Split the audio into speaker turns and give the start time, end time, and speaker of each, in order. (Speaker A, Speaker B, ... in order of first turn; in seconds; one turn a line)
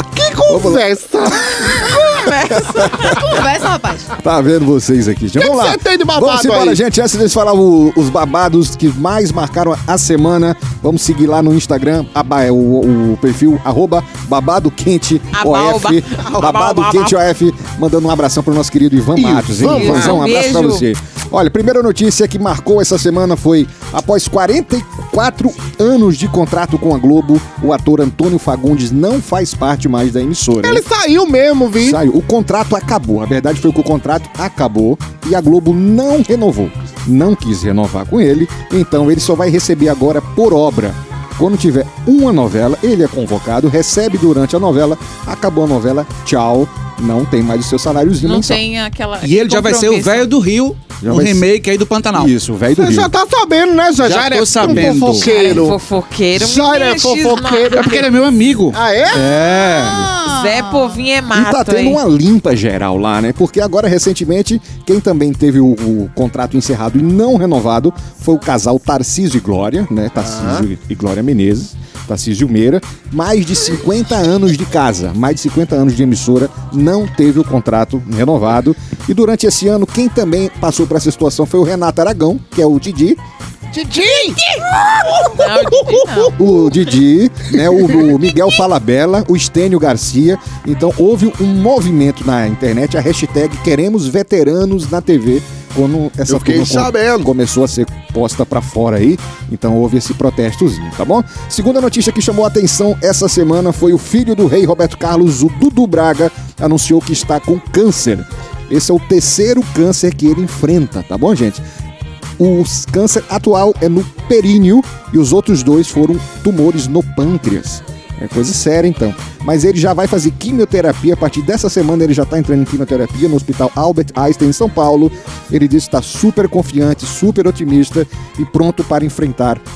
Speaker A: 0.1-2.3
Speaker B: 0.5-0.8
Speaker C: 2.1-3.2
Speaker D: 3.0-4.1
Speaker B: 4.2-30.8
Speaker A: 5.4-6.8
Speaker C: 15.3-17.2
Speaker A: 19.1-20.3
Speaker C: 19.6-20.9
Speaker A: 30.6-32.0
Speaker B: 31.8-48.6
Speaker C: 48.2-50.3
Speaker E: 49.2-52.3
Speaker B: 51.0-51.5
Speaker B: 52.1-53.1
Speaker A: 52.8-55.8
Speaker E: 54.0-55.3
Speaker B: 54.6-55.0
Speaker C: 55.1-58.0
Speaker A: 56.4-58.1
Speaker E: 57.7-60.1
Speaker A: 58.7-59.4
Speaker D: 59.8-61.0
Speaker C: 60.2-62.0
Speaker B: 61.3-83.2
Speaker A: 70.2-70.7
Speaker A: 83.7-86.3
Speaker C: 85.3-86.4
Speaker B: 86.3-111.6
Speaker A: 96.3-97.3
Speaker B: 112.4-129.6